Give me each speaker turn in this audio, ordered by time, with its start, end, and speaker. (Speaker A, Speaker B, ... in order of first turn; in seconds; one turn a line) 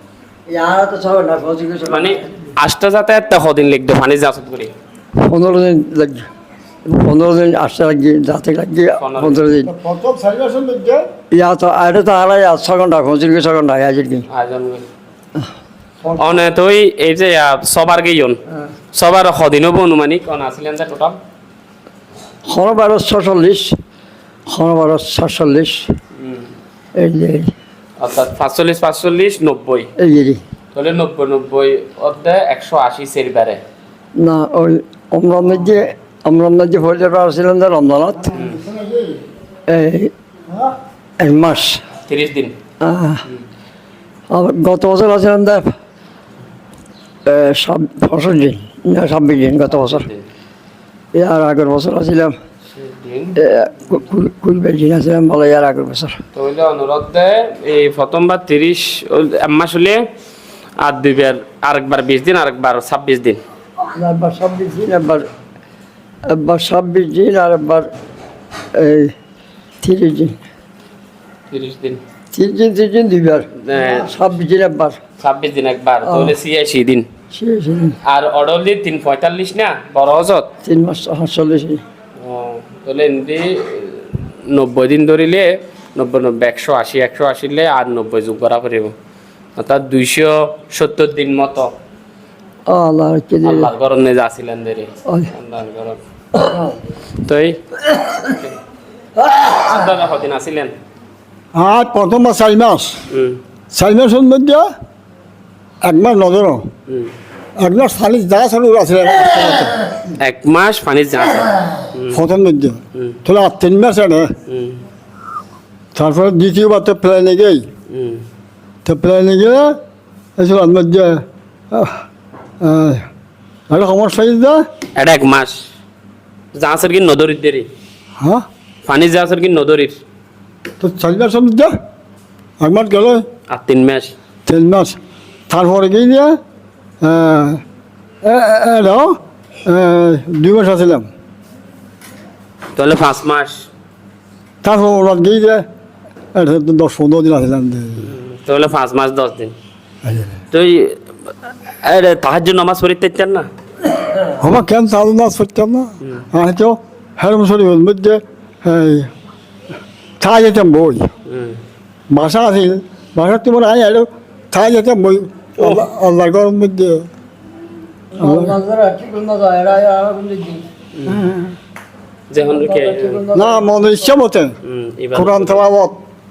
Speaker A: 0.5-2.3
Speaker B: 1.8-4.7
Speaker A: 5.2-6.2
Speaker A: 6.9-9.7
Speaker B: 9.0-9.4
Speaker C: 9.6-11.0
Speaker A: 11.3-14.2
Speaker B: 14.3-14.8
Speaker A: 16.0-16.4
Speaker B: 16.2-18.4
Speaker B: 18.9-21.2
Speaker A: 22.5-23.7
Speaker A: 24.5-25.9
Speaker B: 26.2-26.4
Speaker A: 27.0-27.5
Speaker B: 28.0-29.9
Speaker A: 30.0-30.4
Speaker B: 30.7-33.6
Speaker A: 34.1-38.3
Speaker C: 38.2-39.2
Speaker A: 39.7-40.1
Speaker A: 41.2-41.8
Speaker B: 42.0-42.5
Speaker A: 42.8-43.2
Speaker A: 44.3-45.6
Speaker A: 47.2-50.1
Speaker B: 49.7-50.2
Speaker A: 51.1-52.3
Speaker B: 52.7-53.4
Speaker A: 53.4-56.2
Speaker B: 56.3-60.0
Speaker B: 60.8-63.4
Speaker A: 63.8-65.2
Speaker A: 66.3-67.9
Speaker A: 68.7-69.1
Speaker A: 69.8-70.3
Speaker B: 71.5-72.0
Speaker A: 72.3-75.0
Speaker B: 73.6-74.1
Speaker B: 75.2-77.0
Speaker A: 76.0-76.3
Speaker A: 77.3-78.0
Speaker B: 78.0-80.5
Speaker A: 80.6-81.8
Speaker B: 82.2-88.9
Speaker B: 89.6-91.7
Speaker A: 92.7-93.7
Speaker B: 93.4-96.0
Speaker B: 97.2-98.5
Speaker B: 99.3-100.7
Speaker C: 101.5-103.0
Speaker B: 103.1-103.4
Speaker C: 103.7-104.7
Speaker C: 105.8-106.7
Speaker C: 107.6-109.8
Speaker B: 110.2-112.2
Speaker C: 112.1-114.3
Speaker B: 114.5-114.8
Speaker C: 115.9-117.7
Speaker B: 117.9-118.2
Speaker C: 118.8-119.8
Speaker C: 120.4-122.0
Speaker C: 122.6-123.0
Speaker C: 123.7-124.6
Speaker B: 125.0-125.6
Speaker B: 126.5-127.7
Speaker B: 128.8-130.0
Speaker C: 130.8-131.7
Speaker C: 132.6-133.2
Speaker B: 133.5-134.1
Speaker C: 134.4-135.0
Speaker C: 135.5-136.3
Speaker C: 137.0-137.6
Speaker C: 138.2-141.1
Speaker B: 142.8-143.7
Speaker C: 144.6-145.6
Speaker C: 146.3-148.1
Speaker B: 148.0-149.5
Speaker C: 150.0-150.4
Speaker B: 150.5-151.0
Speaker B: 151.8-153.5
Speaker C: 154.4-159.1
Speaker C: 160.2-161.1
Speaker B: 161.3-161.6
Speaker C: 162.1-167.1
Speaker B: 165.6-165.9
Speaker A: 168.1-170.6
Speaker C: 168.2-168.6
Speaker B: 170.9-171.2
Speaker C: 171.1-171.6
Speaker B: 172.3-173.2
Speaker A: 172.4-174.1
Speaker C: 173.3-174.5
Speaker B: 174.6-175.7
Speaker C: 175.1-176.0